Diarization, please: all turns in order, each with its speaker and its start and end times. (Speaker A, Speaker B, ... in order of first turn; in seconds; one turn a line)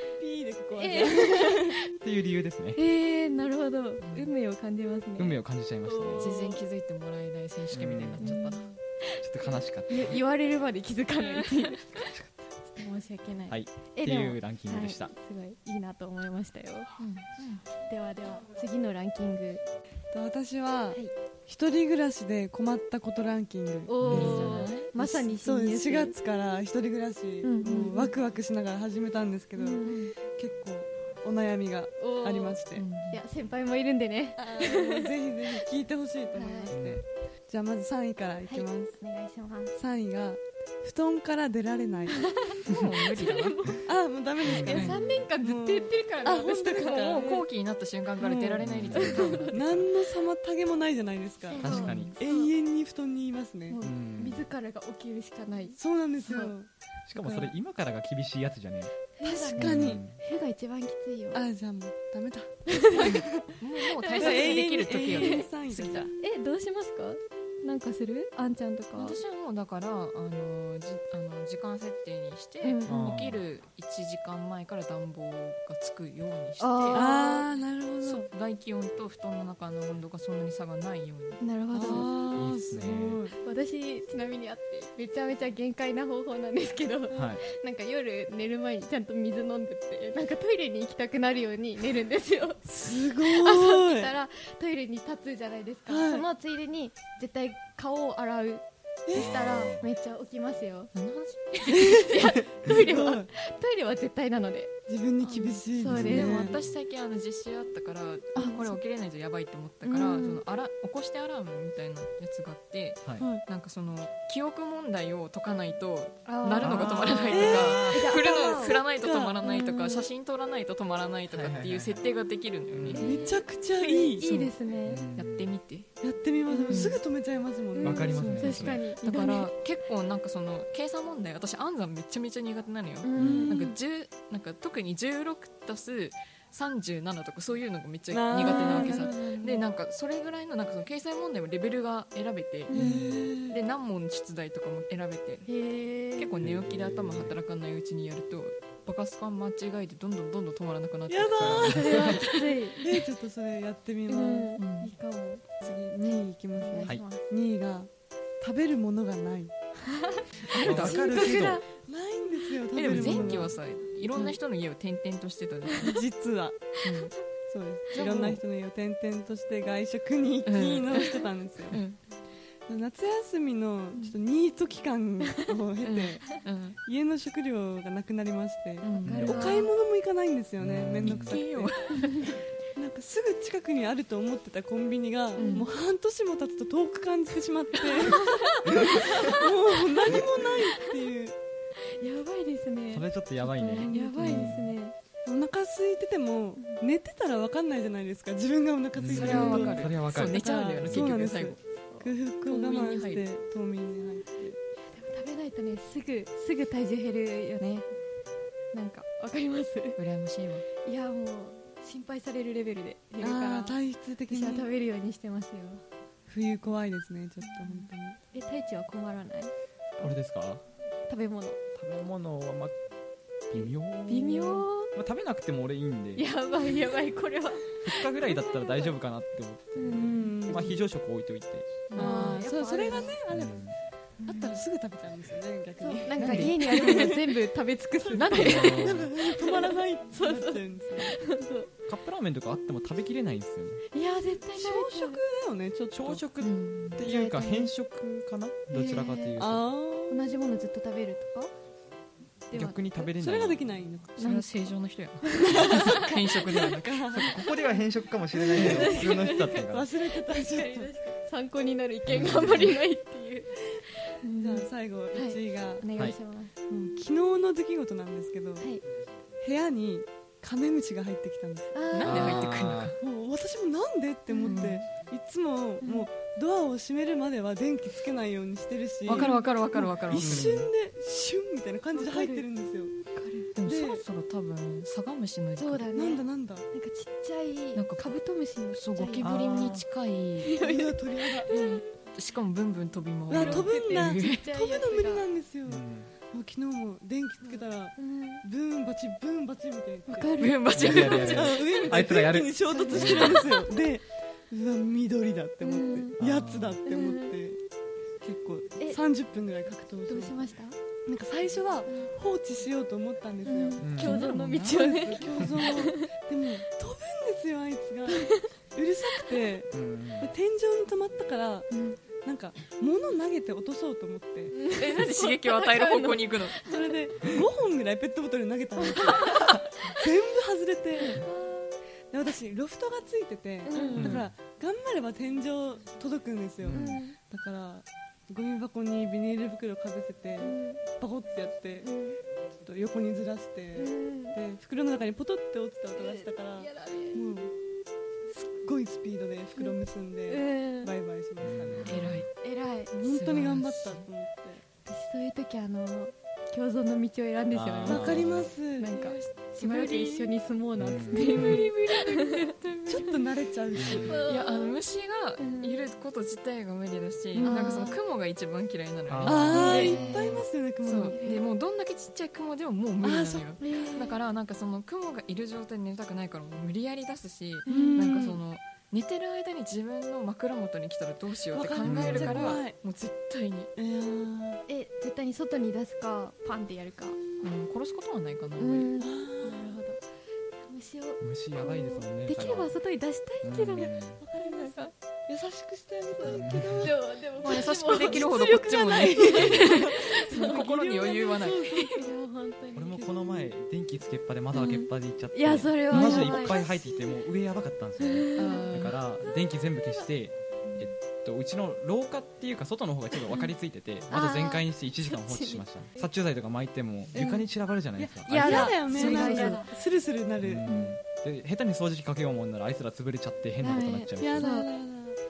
Speaker A: 0.2-1.8
Speaker B: 0.8-1.8
Speaker C: 2.0-2.8
Speaker B: 2.8-6.6
Speaker C: 5.2-6.4
Speaker D: 6.1-8.8
Speaker C: 7.7-8.6
Speaker B: 8.2-8.7
Speaker C: 9.2-10.2
Speaker B: 9.5-12.1
Speaker C: 12.0-12.4
Speaker B: 12.7-16.9
Speaker C: 13.5-15.1
Speaker D: 17.0-17.6
Speaker B: 17.8-19.6
Speaker A: 20.1-32.9
Speaker B: 23.9-26.1
Speaker C: 24.0-24.5
Speaker D: 24.0-24.9
Speaker B: 27.4-28.1
Speaker B: 29.6-30.1
Speaker B: 32.0-35.6
Speaker D: 32.7-33.2
Speaker A: 34.4-38.9
Speaker B: 36.3-36.8
Speaker C: 36.7-37.0
Speaker B: 38.5-39.7
Speaker A: 39.8-42.3
Speaker B: 42.1-43.9
Speaker D: 42.6-43.7
Speaker A: 43.9-47.4
Speaker C: 44.4-45.3
Speaker D: 44.5-45.0
Speaker B: 44.6-47.4
Speaker D: 46.8-49.9
Speaker A: 48.2-53.8
Speaker C: 48.6-49.4
Speaker B: 48.9-49.5
Speaker B: 51.5-52.5
Speaker C: 51.6-52.1
Speaker B: 53.7-56.5
Speaker C: 53.8-54.5
Speaker A: 55.8-57.5
Speaker C: 57.1-58.9
Speaker B: 59.2-61.4
Speaker A: 59.2-60.0
Speaker C: 59.6-60.2
Speaker A: 61.3-63.5
Speaker B: 62.7-63.3
Speaker D: 63.0-66.1
Speaker B: 64.0-65.5
Speaker A: 64.1-66.1
Speaker B: 66.2-69.2
Speaker D: 69.0-77.3
Speaker B: 72.6-73.0
Speaker C: 72.9-73.4
Speaker B: 76.6-77.5
Speaker A: 76.9-78.3
Speaker D: 78.0-82.0
Speaker B: 81.4-82.2
Speaker A: 81.7-83.4
Speaker C: 82.3-83.2
Speaker B: 83.4-100.9
Speaker C: 87.1-87.4
Speaker A: 92.7-94.1
Speaker A: 95.9-96.3
Speaker A: 99.1-99.4
Speaker C: 99.1-99.9
Speaker D: 100.9-102.0
Speaker B: 101.7-106.6
Speaker A: 101.7-103.3
Speaker A: 104.9-106.6
Speaker D: 105.9-123.3
Speaker B: 108.4-108.7
Speaker B: 109.8-110.4
Speaker B: 116.3-118.8
Speaker C: 116.6-118.2
Speaker A: 117.3-117.8
Speaker A: 118.4-119.5
Speaker B: 119.4-120.1
Speaker C: 121.3-122.1
Speaker C: 122.7-123.1
Speaker B: 122.9-125.1
Speaker A: 123.0-124.5
Speaker C: 124.8-125.6
Speaker D: 125.2-125.9
Speaker A: 126.0-128.5
Speaker B: 126.5-127.0
Speaker D: 126.7-127.0
Speaker B: 127.7-129.5
Speaker C: 127.8-128.8
Speaker D: 128.2-142.7
Speaker B: 133.0-133.7
Speaker C: 133.2-133.5
Speaker A: 133.2-133.8
Speaker A: 138.1-139.6
Speaker B: 138.4-139.4
Speaker A: 142.7-143.6
Speaker C: 142.8-143.3
Speaker D: 143.5-145.5
Speaker B: 145.5-146.3
Speaker D: 146.2-152.2
Speaker C: 146.4-147.3
Speaker A: 151.1-154.6
Speaker C: 151.3-152.2
Speaker B: 151.7-152.9
Speaker B: 154.1-157.3
Speaker D: 154.6-154.9
Speaker A: 155.6-159.5
Speaker B: 159.9-161.6
Speaker D: 160.5-161.4
Speaker C: 160.5-161.6
Speaker A: 161.9-163.6
Speaker D: 162.7-166.0
Speaker A: 165.8-166.8
Speaker D: 166.8-167.1
Speaker A: 167.5-171.8
Speaker D: 167.9-168.4
Speaker D: 170.5-172.0
Speaker A: 172.7-181.8
Speaker D: 175.8-176.8
Speaker D: 178.8-179.7
Speaker B: 178.9-179.7
Speaker C: 179.1-179.4
Speaker C: 180.6-181.4
Speaker D: 181.0-182.3
Speaker B: 181.9-182.3
Speaker A: 182.8-191.4
Speaker B: 185.4-185.7
Speaker D: 185.4-185.6
Speaker B: 188.0-189.5
Speaker B: 192.0-194.9
Speaker C: 192.9-194.7
Speaker A: 193.7-194.6
Speaker A: 195.2-204.6
Speaker C: 199.0-201.1
Speaker D: 199.1-201.6
Speaker B: 201.9-202.2
Speaker D: 202.5-203.3
Speaker B: 204.9-207.9
Speaker B: 208.7-210.0
Speaker D: 210.0-210.7
Speaker B: 210.8-213.8
Speaker A: 213.2-214.7
Speaker B: 214.3-215.8
Speaker A: 216.3-218.2
Speaker B: 217.7-219.5
Speaker C: 220.0-220.6
Speaker B: 221.1-221.6
Speaker C: 221.8-222.8
Speaker C: 223.5-226.3
Speaker B: 224.1-224.9
Speaker B: 226.2-228.9
Speaker C: 227.8-231.9
Speaker B: 229.8-230.8
Speaker A: 229.9-230.8
Speaker D: 231.9-232.5
Speaker B: 231.9-233.2
Speaker A: 231.9-233.7
Speaker C: 233.3-233.7
Speaker B: 234.2-234.6
Speaker A: 234.2-237.4
Speaker B: 235.8-241.7
Speaker D: 236.2-237.2
Speaker A: 238.1-241.2
Speaker D: 238.1-239.0
Speaker C: 238.4-239.1
Speaker C: 241.9-243.8
Speaker B: 243.9-245.2
Speaker A: 244.6-246.2
Speaker C: 245.9-249.7
Speaker D: 246.4-247.1
Speaker B: 247.0-247.7
Speaker B: 248.7-249.4
Speaker A: 249.4-250.2
Speaker B: 250.1-251.5
Speaker B: 252.5-253.0
Speaker C: 252.5-253.7
Speaker A: 253.1-254.2
Speaker D: 254.2-257.3
Speaker B: 254.2-254.7
Speaker B: 255.2-256.0
Speaker A: 255.4-257.4
Speaker C: 257.1-259.9
Speaker A: 258.5-260.9
Speaker B: 258.5-266.5
Speaker C: 262.1-262.8
Speaker A: 264.4-265.9
Speaker A: 266.7-268.7
Speaker A: 269.4-271.7
Speaker B: 271.7-272.4
Speaker D: 271.9-273.0
Speaker C: 272.0-272.9
Speaker A: 273.0-282.9
Speaker B: 274.3-274.8
Speaker D: 274.4-274.8
Speaker B: 275.8-276.1
Speaker D: 279.1-280.5
Speaker B: 279.1-279.4
Speaker C: 280.1-280.7
Speaker B: 281.9-282.4
Speaker B: 283.1-283.5
Speaker D: 283.6-285.9
Speaker A: 283.6-284.0
Speaker B: 285.6-289.8
Speaker A: 285.9-286.6
Speaker D: 287.8-288.2
Speaker D: 288.7-290.6
Speaker C: 289.2-289.9
Speaker B: 290.5-291.8
Speaker A: 290.5-291.5
Speaker D: 291.5-294.5
Speaker A: 293.3-307.6
Speaker B: 293.3-295.3
Speaker C: 295.7-296.1
Speaker B: 297.5-298.4
Speaker B: 300.1-300.8
Speaker D: 300.4-302.0
Speaker C: 300.7-303.4
Speaker B: 302.7-303.6
Speaker B: 305.6-306.1
Speaker C: 306.2-306.8
Speaker B: 306.9-307.4
Speaker A: 308.2-310.4
Speaker B: 310.1-310.8
Speaker A: 311.1-321.7
Speaker B: 313.5-316.1
Speaker C: 313.8-314.4
Speaker D: 314.0-315.0
Speaker B: 318.1-318.5
Speaker C: 319.7-320.3
Speaker B: 321.7-322.0
Speaker A: 322.2-324.6
Speaker B: 324.5-326.9
Speaker D: 324.7-326.7
Speaker A: 326.6-331.3
Speaker B: 328.9-329.6
Speaker B: 331.0-331.7
Speaker A: 332.1-341.9
Speaker B: 333.7-334.2
Speaker C: 334.0-334.3
Speaker C: 336.6-337.0
Speaker B: 336.7-337.2
Speaker B: 340.4-340.8
Speaker B: 341.8-342.2
Speaker A: 342.6-347.5
Speaker B: 343.8-344.4
Speaker B: 346.0-347.2
Speaker A: 348.3-352.1
Speaker B: 350.3-350.9
Speaker C: 351.4-352.3
Speaker D: 351.9-352.3
Speaker B: 352.4-352.9
Speaker A: 353.0-354.6
Speaker D: 353.0-354.1
Speaker B: 354.9-362.5
Speaker C: 357.5-358.5
Speaker A: 357.9-358.9
Speaker D: 358.9-360.1
Speaker A: 359.6-360.2
Speaker C: 360.8-361.6
Speaker D: 361.1-363.2
Speaker A: 362.9-364.3
Speaker C: 363.8-364.2
Speaker B: 363.9-364.8
Speaker D: 364.1-370.1
Speaker B: 365.4-365.8
Speaker A: 367.4-367.9
Speaker B: 367.4-368.0
Speaker C: 369.1-370.5
Speaker A: 369.3-371.2
Speaker B: 369.6-370.2
Speaker D: 370.8-383.7
Speaker B: 371.1-371.4
Speaker A: 373.0-373.6
Speaker B: 373.6-374.2
Speaker B: 377.7-378.0
Speaker A: 377.7-378.4
Speaker A: 381.5-382.8
Speaker C: 381.8-382.6
Speaker A: 383.8-384.6
Speaker B: 384.7-387.2
Speaker D: 387.4-388.9
Speaker B: 388.6-390.0
Speaker A: 389.0-389.8
Speaker B: 390.7-394.9
Speaker C: 391.2-392.7
Speaker C: 393.4-394.2
Speaker A: 393.8-402.1
Speaker B: 396.1-400.7
Speaker C: 396.3-396.9
Speaker D: 397.4-402.0
Speaker B: 401.9-403.0
Speaker C: 402.7-419.1
Speaker A: 402.9-403.5
Speaker B: 404.6-407.1
Speaker A: 406.0-406.5
Speaker B: 408.1-408.7
Speaker D: 408.4-409.0
Speaker B: 414.1-415.6
Speaker A: 417.1-417.4
Speaker A: 418.0-420.7
Speaker B: 418.3-419.7
Speaker D: 418.5-419.6
Speaker C: 420.4-424.6
Speaker B: 420.7-420.9
Speaker B: 423.6-424.7
Speaker A: 424.2-425.2